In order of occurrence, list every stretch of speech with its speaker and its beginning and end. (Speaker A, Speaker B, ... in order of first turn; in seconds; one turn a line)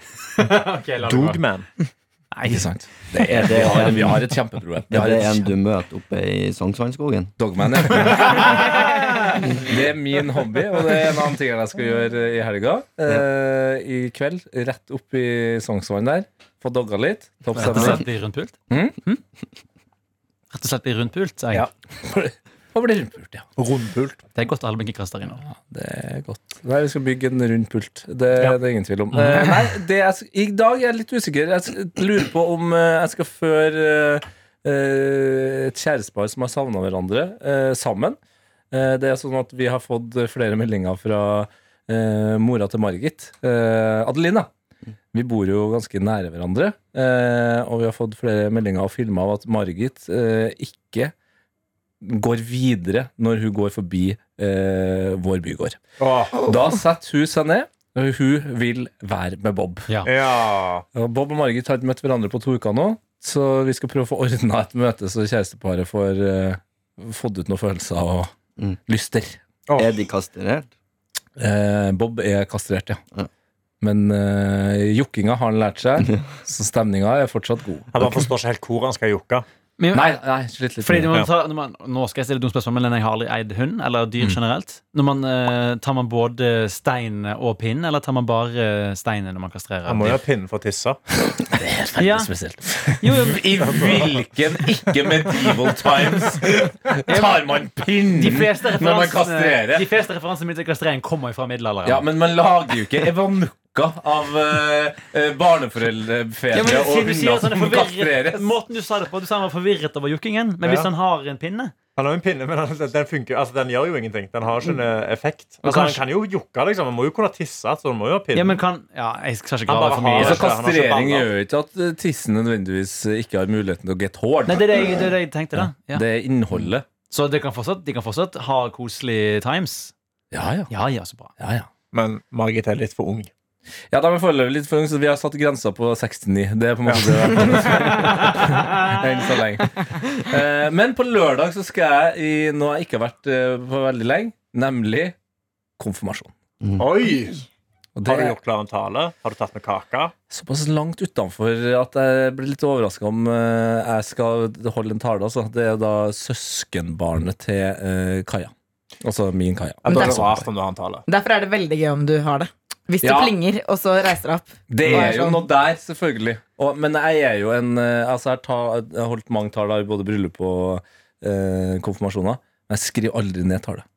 Speaker A: 0.4-1.4
Speaker B: 1.1-1.7
Speaker A: 2.3-2.7
Speaker C: 2.5-5.5
Speaker D: 3.2-4.3
Speaker D: 4.9-7.3
Speaker C: 7.4-18.1
Speaker A: 17.6-19.2
Speaker C: 18.7-19.0
Speaker A: 20.5-21.7
Speaker C: 21.5-23.5
Speaker B: 23.6-24.2
Speaker A: 24.4-25.4
Speaker C: 25.4-38.2
Speaker A: 29.1-29.5
Speaker C: 38.7-44.5
Speaker C: 45.1-51.1
Speaker C: 52.0-59.9
Speaker B: 56.0-56.5
Speaker B: 60.0-60.9
Speaker C: 60.9-68.3
Speaker C: 68.9-69.4
Speaker B: 69.7-69.9
Speaker D: 69.8-70.7
Speaker C: 71.4-73.0
Speaker C: 73.8-78.3
Speaker B: 77.9-79.5
Speaker A: 79.8-80.1
Speaker C: 79.9-81.2
Speaker A: 80.8-90.2
Speaker B: 89.9-91.0
Speaker C: 91.3-99.9
Speaker A: 92.0-92.3
Speaker A: 93.0-93.4
Speaker A: 97.1-97.4
Speaker A: 98.1-102.0
Speaker C: 101.8-108.5
Speaker A: 106.5-111.7
Speaker B: 110.6-110.9
Speaker B: 112.0-118.6
Speaker A: 115.6-116.0
Speaker A: 118.3-120.5
Speaker B: 119.7-121.3
Speaker C: 120.2-126.8
Speaker A: 124.5-126.0
Speaker A: 127.1-129.9
Speaker C: 130.3-130.7
Speaker A: 130.7-131.3
Speaker C: 131.4-131.7
Speaker B: 131.9-133.3
Speaker C: 133.9-145.2
Speaker B: 136.9-138.0
Speaker A: 138.1-138.4
Speaker C: 145.8-146.3
Speaker B: 146.8-147.5
Speaker C: 148.0-148.4
Speaker B: 148.1-150.1
Speaker C: 150.3-160.4
Speaker B: 159.8-161.1
Speaker E: 159.9-160.2
Speaker E: 161.1-165.4
Speaker C: 163.0-163.3
Speaker C: 164.7-173.8